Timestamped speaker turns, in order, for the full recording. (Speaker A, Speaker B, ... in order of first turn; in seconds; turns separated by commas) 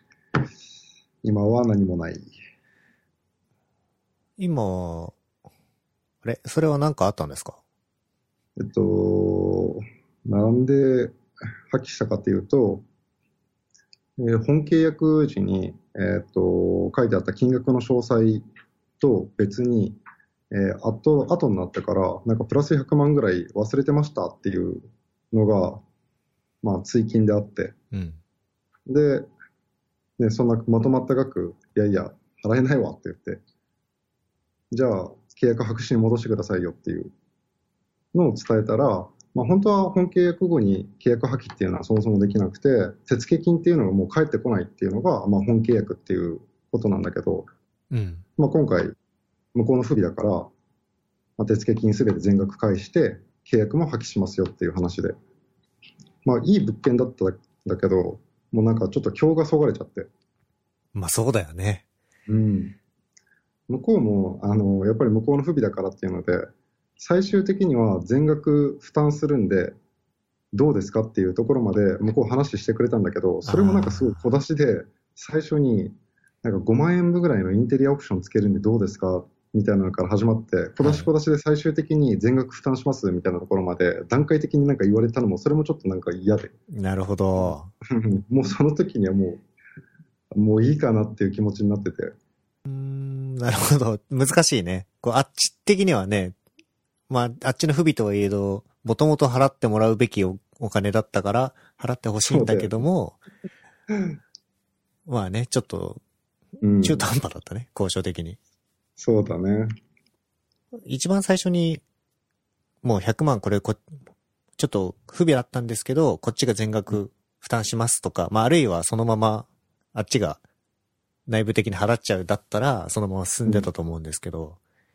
Speaker A: 1.2-2.3, Speaker B: 4.4-5.2, Speaker B: 6.2-7.6, Speaker A: 8.6-11.2, Speaker A: 11.7-12.8, Speaker A: 14.2-18.4, Speaker A: 19.0-20.0, Speaker A: 20.5-25.8, Speaker A: 26.6-27.7, Speaker B: 27.9-28.2, Speaker A: 28.9-29.3, Speaker A: 30.2-33.4, Speaker A: 34.7-37.1, Speaker A: 38.1-47.5, Speaker B: 47.9-48.2, Speaker A: 48.4-48.9, Speaker A: 49.5-50.5, Speaker A: 51.4-55.1, Speaker A: 56.2-60.1, Speaker B: 60.9-61.8, Speaker A: 62.3-62.8, Speaker A: 63.7-66.5, Speaker A: 67.0-69.8, Speaker A: 70.5-86.5, Speaker B: 73.4-74.3, Speaker B: 80.8-81.1, Speaker B: 86.7-87.7, Speaker A: 87.9-89.4, Speaker A: 90.3-92.1, Speaker B: 92.7-96.3, Speaker B: 97.1-103.2, Speaker A: 102.2-102.8, Speaker A: 103.9-104.2, Speaker B: 105.0-106.0, Speaker A: 106.6-107.0, Speaker B: 106.8-108.4, Speaker A: 109.0-109.7, Speaker B: 110.8-111.8, Speaker B: 112.8-113.8, Speaker B: 114.6-120.4, Speaker B: 121.3-124.6